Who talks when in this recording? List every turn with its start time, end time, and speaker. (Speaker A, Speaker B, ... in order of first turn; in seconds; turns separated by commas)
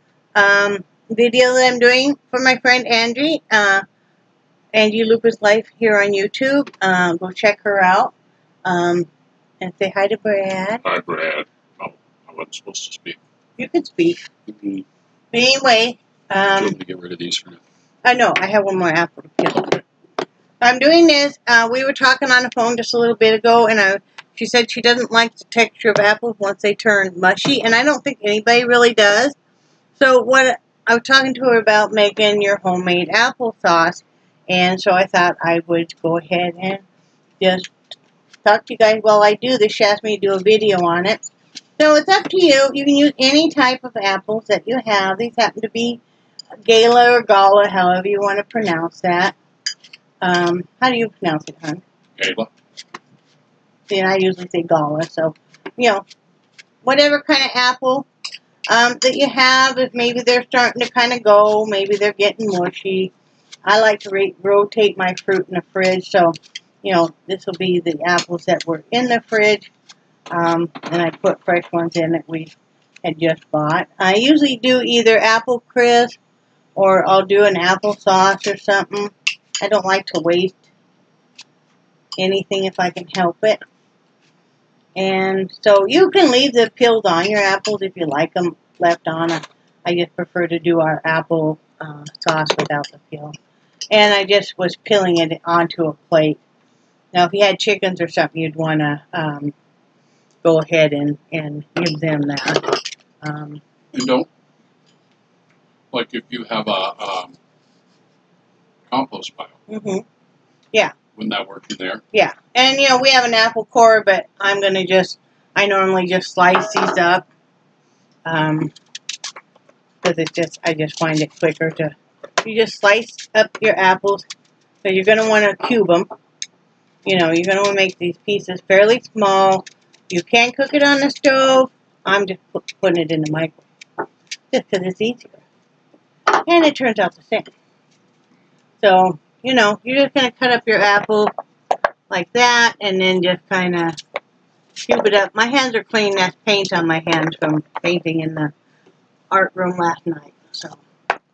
Speaker A: 0.4-3.8, Speaker A: 4.7-8.1, Speaker A: 8.7-9.1, Speaker A: 9.6-10.8, Speaker B: 10.8-13.2, Speaker A: 13.6-14.3, Speaker B: 14.5-14.8, Speaker A: 15.3-16.8, Speaker B: 16.6-17.6, Speaker A: 18.1-19.8, Speaker A: 20.6-29.4, Speaker A: 30.0-36.8, Speaker A: 37.4-37.9, Speaker A: 38.4-41.2, Speaker A: 41.8-46.0, Speaker A: 46.6-49.4, Speaker A: 50.2-51.8, Speaker B: 52.2-52.5, Speaker A: 53.9-56.0, Speaker A: 56.8-58.1, Speaker A: 58.7-63.1, Speaker A: 63.6-69.7, Speaker A: 70.3-76.2, Speaker A: 76.8-80.6, Speaker A: 82.2-83.6, Speaker A: 85.0-93.4, Speaker A: 93.9-96.4, Speaker A: 97.1-99.5, Speaker A: 100.4-103.6, Speaker B: 103.9-104.3, Speaker B: 105.9-107.4, Speaker B: 108.9-109.5, Speaker A: 109.7-110.0, Speaker B: 111.2-112.0, Speaker A: 112.1-117.3, Speaker A: 118.3-118.7, Speaker A: 120.0-124.2, Speaker A: 124.8-126.1, Speaker A: 127.0-133.7, Speaker A: 134.5-135.4, Speaker A: 136.3-137.5, Speaker A: 138.8-141.3, Speaker A: 142.1-144.0, Speaker A: 144.8-148.5, Speaker A: 149.3-150.8